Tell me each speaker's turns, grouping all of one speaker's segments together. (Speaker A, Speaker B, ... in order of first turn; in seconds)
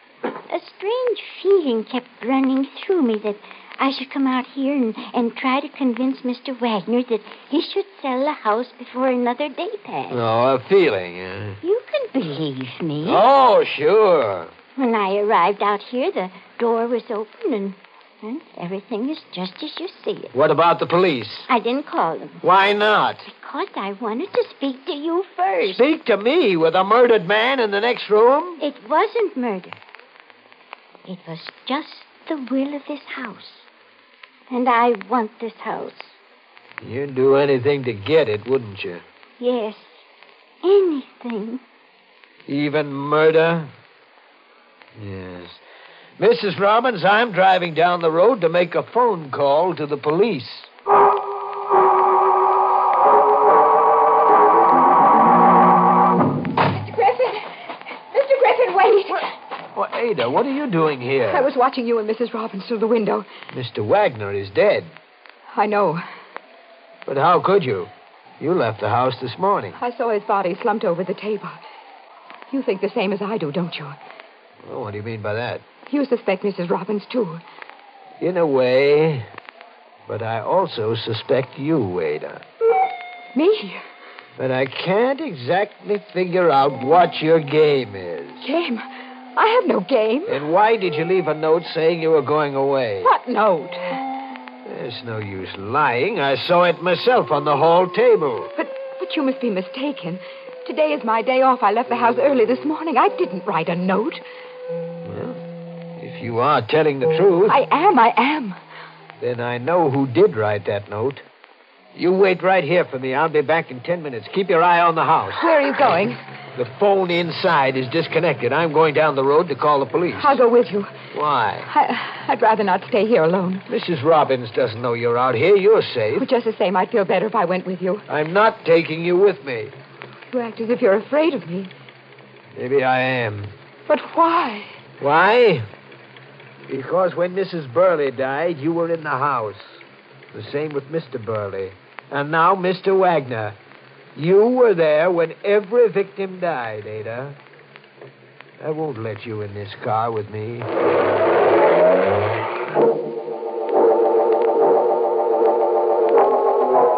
Speaker A: 0.5-10.3, 11.6-13.2, 14.8-20.4, 21.5-22.4, 23.2-25.9, 28.6-29.8, 31.1-33.7, 34.5-36.2, 39.4-40.0, 40.6-41.6
Speaker B: 10.1-11.6, 13.0-14.5, 20.3-21.5, 22.4-23.3, 25.6-28.6, 36.8-39.0, 42.5-43.7, 45.0-45.6, 46.2-50.7, 59.8-61.5, 63.5-64.9, 67.1-69.8, 74.6-75.7, 78.2-79.3, 80.1-82.4, 84.4-88.5, 90.3-93.1, 94.7-98.5, 105.0-105.4, 106.0-107.6, 109.2-111.2, 112.0-115.5, 116.6-120.4, 121.1-121.7, 123.7-126.3, 128.1-129.7, 132.6-133.5, 135.0-135.7, 136.7-139.8, 140.3-143.6, 144.2-147.4, 148.6-150.7
Speaker C: 56.6-57.6, 58.1-59.3, 61.3-63.3, 65.5-66.0, 69.8-71.6, 72.5-74.0, 75.9-77.4, 83.3-83.8, 88.4-88.8, 89.4-90.4, 93.0-94.0, 98.6-104.2, 107.5-108.6, 115.4-116.2, 120.2-121.0, 121.7-123.7, 126.2-128.1, 130.3-131.7, 133.9-134.8